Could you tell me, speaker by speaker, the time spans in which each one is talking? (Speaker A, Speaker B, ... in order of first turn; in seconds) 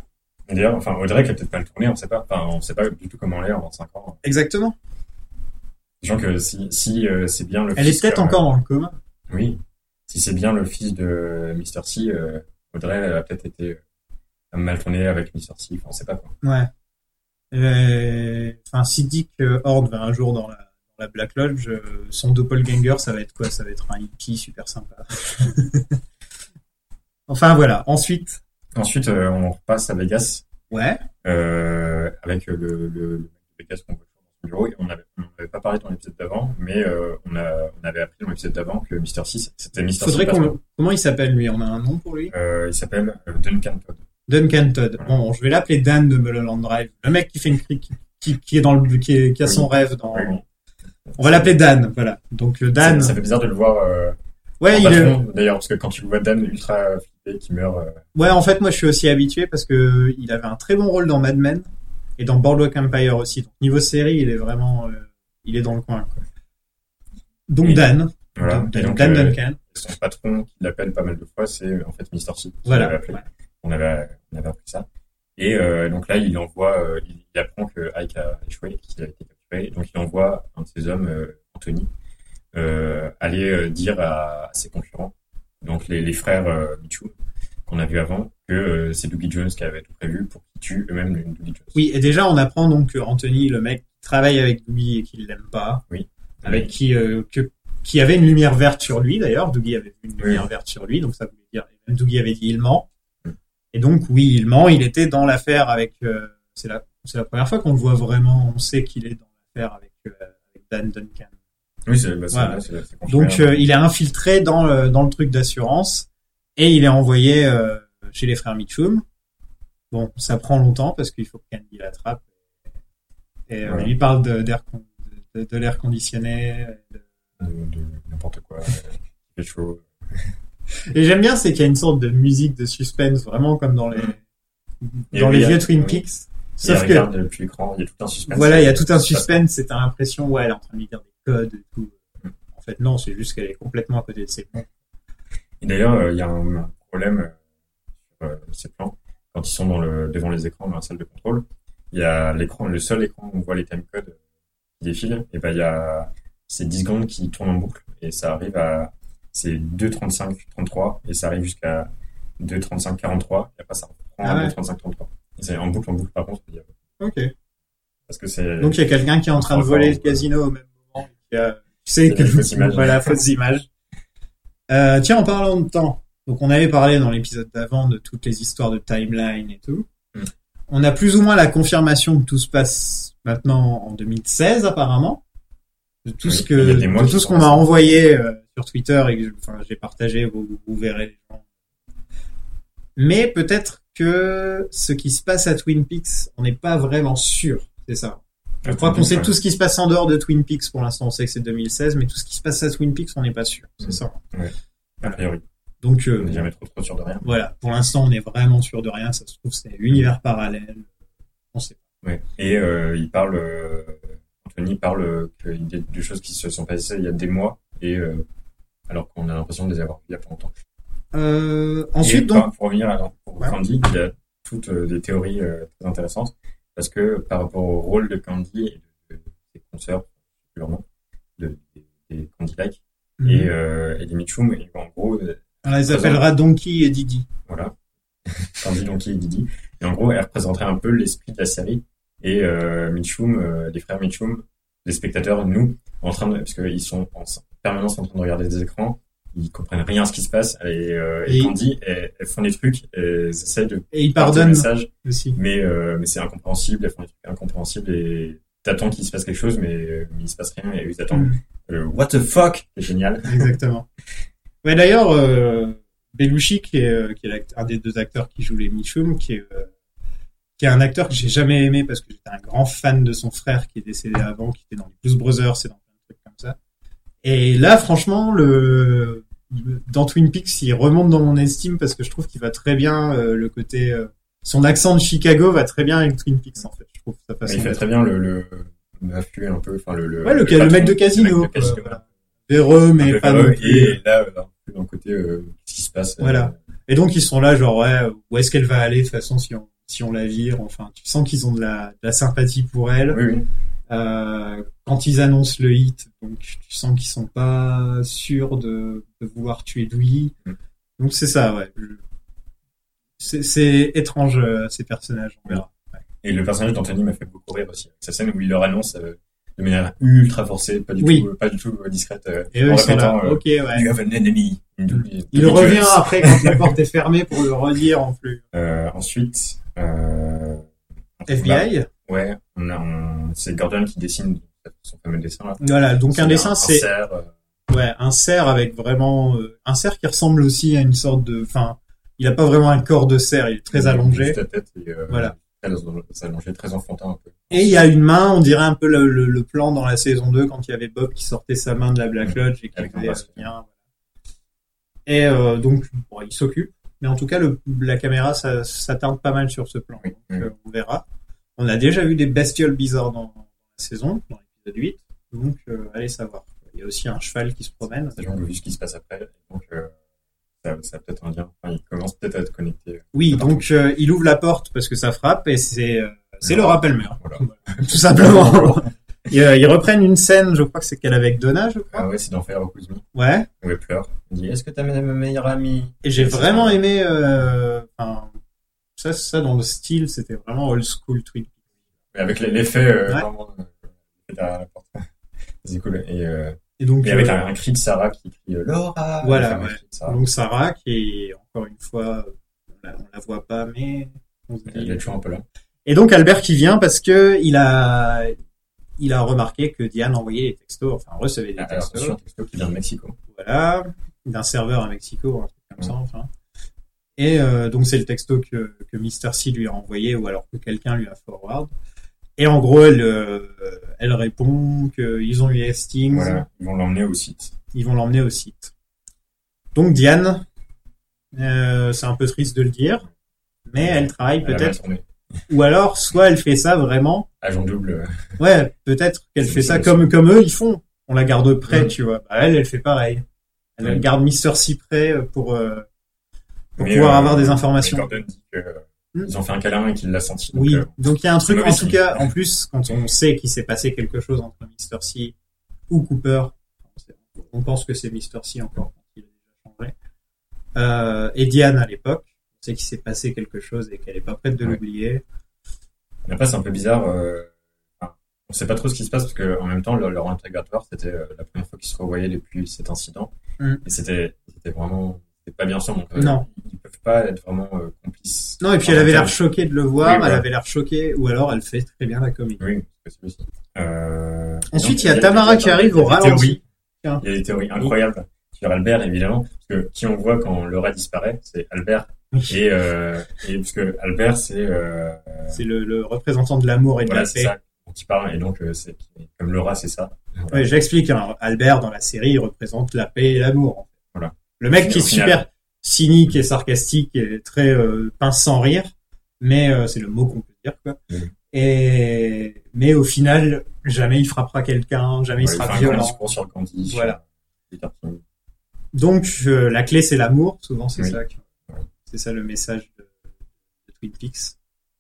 Speaker A: 0.5-4.2, 6.0-8.4, 9.3-13.8, 14.5-16.3, 28.8-30.4, 31.2-40.6, 42.3-44.0, 49.4-50.4, 51.1-51.5, 52.8-54.2, 54.7-58.1, 67.6-81.9, 82.5-87.1, 87.7-91.8, 95.9-96.7, 100.2-100.5, 111.9-113.7, 123.6-123.9, 127.4-130.3, 135.1-136.0, 136.6-139.4, 145.6-147.4, 148.1-154.2, 154.8-166.7, 168.1-168.8, 169.4-170.2, 172.0-173.2, 186.2-188.0, 198.6-199.3, 203.8-205.4, 206.2-207.3, 212.0-218.2, 218.9-220.5, 222.0-230.8, 231.4-236.2, 237.5-263.5, 287.4-292.0, 293.0-296.6, 303.1-303.5, 316.2-326.8, 328.5-330.7, 331.2-337.3, 343.7-347.9, 352.2-353.5, 360.0-360.5, 368.1-369.9, 370.6-373.7, 376.4-378.9, 381.9-383.1, 383.6-386.8, 392.1-395.1, 395.6-400.2, 404.7-405.4, 411.6-413.2, 426.1-427.6, 433.8-435.1, 437.4-438.4, 439.4-440.1, 446.8-452.3, 466.3-473.3, 473.8-479.4, 480.0-480.5, 482.6-486.6, 487.2-495.6, 497.0-500.7, 504.1-505.4, 515.4-518.2
Speaker B: 4.2-4.8, 7.8-9.0, 16.4-16.7, 17.5-26.0, 27.3-28.4, 30.7-31.0, 40.0-42.3, 44.3-50.4, 51.2-53.2, 54.6-55.2, 58.1-66.2, 67.5-69.6, 72.7-73.2, 91.8-95.8, 96.4-102.9, 103.7-111.3, 112.3-119.0, 119.9-122.3, 123.5-127.0, 130.9-134.2, 134.8-137.1, 138.3-142.0, 142.5-144.7, 164.2-164.5, 167.0-167.3, 168.6-173.7, 174.7-179.9, 180.7-185.2, 186.1-191.4, 193.0-204.2, 205.8-206.5, 207.2-210.9, 211.5-211.8, 221.1-222.5, 233.2-233.5, 235.6-237.3, 251.3-251.5, 253.9-255.4, 261.1-261.4, 263.3-263.9, 264.6-269.7, 270.6-276.6, 277.2-287.8, 290.2-294.0, 296.2-303.2, 303.9-310.4, 311.0-312.0, 313.2-316.0, 321.0-321.3, 322.5-323.9, 325.3-328.4, 331.3-331.9, 335.6-336.9, 337.7-344.4, 345.1-345.3, 347.5-353.7, 355.1-361.0, 361.6-368.2, 373.1-382.1, 383.1-383.5, 386.0-388.3, 389.0-391.6, 396.8-397.4, 399.2-405.1, 405.9-408.4, 409.0-412.2, 413.3-416.3, 417.2-421.7, 422.4-426.4, 427.7-428.7, 429.8-430.5, 431.3-433.1, 433.7-434.8, 435.5-437.3, 438.4-443.2, 443.8-445.9, 446.8-448.2, 450.5-455.3, 455.9-459.9, 460.8-465.2, 476.2-476.4, 478.6-482.6, 484.7-487.2, 492.3-492.6, 495.5-497.5, 500.5-503.9, 504.6-511.0, 511.5-516.2, 516.9-517.2, 518.9-521.4, 522.1-523.1, 523.9-524.5